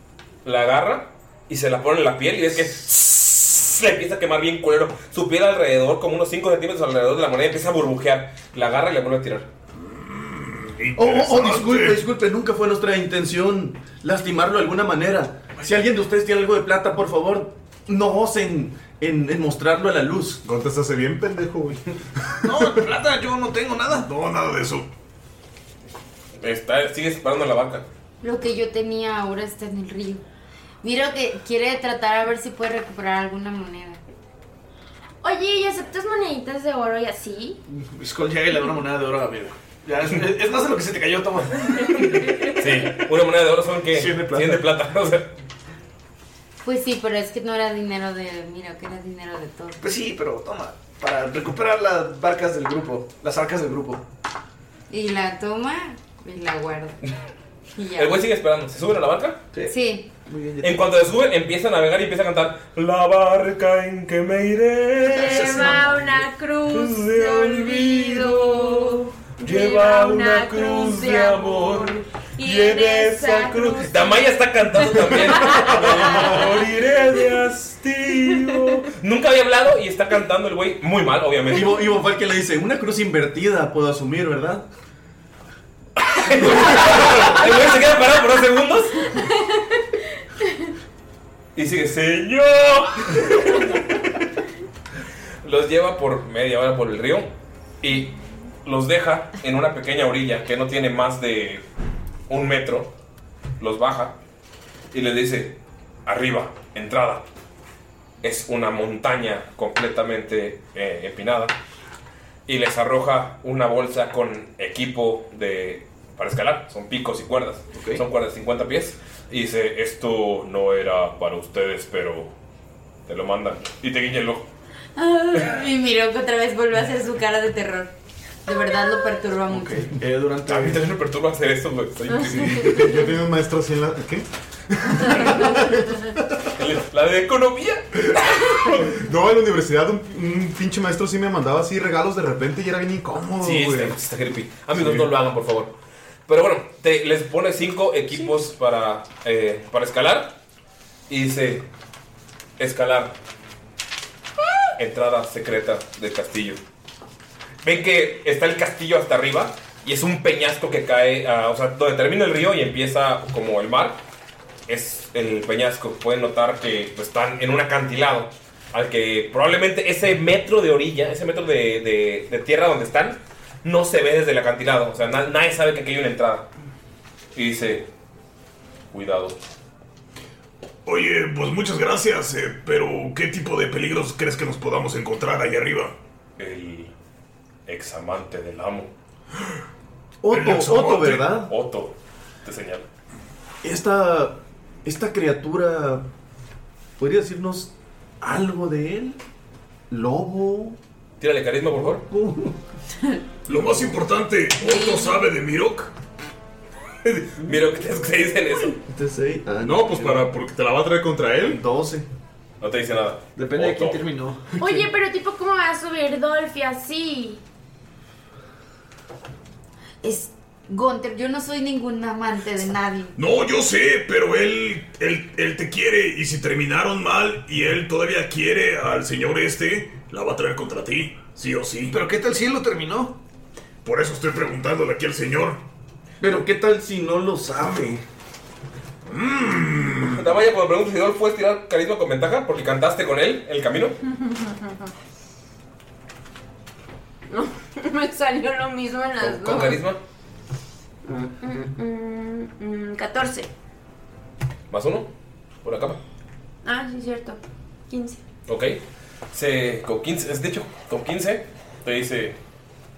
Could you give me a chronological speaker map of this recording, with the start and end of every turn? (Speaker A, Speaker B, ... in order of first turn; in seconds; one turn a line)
Speaker A: 0.4-9.5
Speaker B: 9.8-12.0
Speaker C: 10.9-20.4
Speaker D: 20.4-22.9
Speaker E: 22.4-24.1
Speaker B: 23.9-24.9
Speaker A: 26.4-27.8
Speaker F: 28.2-30.2
Speaker F: 30.8-34.0
Speaker G: 35.2-37.6
Speaker E: 37.7-42.4
Speaker A: 42.5-45.3
Speaker E: 43.9-44.7
Speaker F: 46.6-49.8
Speaker E: 49.8-54.0
Speaker F: 54.9-57.0
Speaker F: 57.7-58.2
Speaker A: 57.9-59.4
Speaker E: 59.5-60.9
Speaker F: 59.7-60.1
Speaker A: 60.6-65.6
Speaker E: 65.1-66.3
Speaker G: 65.2-74.2
Speaker A: 66.7-81.7
Speaker G: 74.9-76.4
Speaker C: 81.5-84.7
Speaker A: 86.0-89.1
Speaker G: 89.1-89.8
Speaker A: 91.5-93.8
Speaker A: 95.4-97.3
Speaker A: 97.8-98.1
Speaker A: 98.6-101.6
Speaker A: 102.3-102.9
Speaker A: 103.6-104.1
Speaker A: 104.9-107.2
Speaker A: 108.2-111.5
Speaker A: 112.5-122.3
Speaker E: 117.7-118.0
Speaker A: 123.1-124.5
Speaker F: 125.0-127.9
Speaker F: 128.4-129.9
Speaker E: 129.5-130.9
Speaker A: 130.5-132.8
Speaker D: 132.2-136.4
Speaker G: 132.4-132.8
Speaker A: 136.5-138.8
Speaker D: 138.6-144.0
Speaker A: 143.4-145.7
Speaker D: 144.7-145.1
Speaker A: 146.3-150.3
Speaker A: 151.1-151.7
Speaker A: 152.6-153.1
Speaker A: 154.8-156.6
Speaker A: 157.6-164.0
Speaker A: 164.7-176.4
Speaker A: 177.3-177.9
Speaker A: 178.9-179.3
Speaker B: 180.8-185.9
Speaker A: 186.4-186.9
Speaker A: 187.7-188.9
Speaker C: 190.2-191.5
Speaker B: 190.3-191.4
Speaker A: 191.5-192.8
Speaker C: 193.6-196.0
Speaker C: 197.0-199.2
Speaker C: 199.9-200.8
Speaker A: 201.2-202.0
Speaker C: 201.7-202.6
Speaker B: 203.4-205.9
Speaker F: 204.8-205.1
Speaker A: 207.0-208.8
Speaker C: 208.9-210.3
Speaker D: 209.6-211.6
Speaker C: 211.4-212.1
Speaker A: 212.6-214.0
Speaker E: 213.3-214.8
Speaker G: 214.6-217.4
Speaker F: 220.0-223.1
Speaker B: 223.2-232.0
Speaker E: 231.9-233.2
Speaker B: 233.8-235.6
Speaker C: 236.2-238.0
Speaker B: 239.1-240.2
Speaker A: 240.0-243.9
Speaker G: 244.1-244.9
Speaker G: 247.3-249.8
Speaker A: 249.2-250.0
Speaker G: 251.0-253.5
Speaker A: 254.7-255.1
Speaker A: 255.6-256.0
Speaker G: 256.6-258.2
Speaker A: 258.5-258.8
Speaker A: 259.3-262.4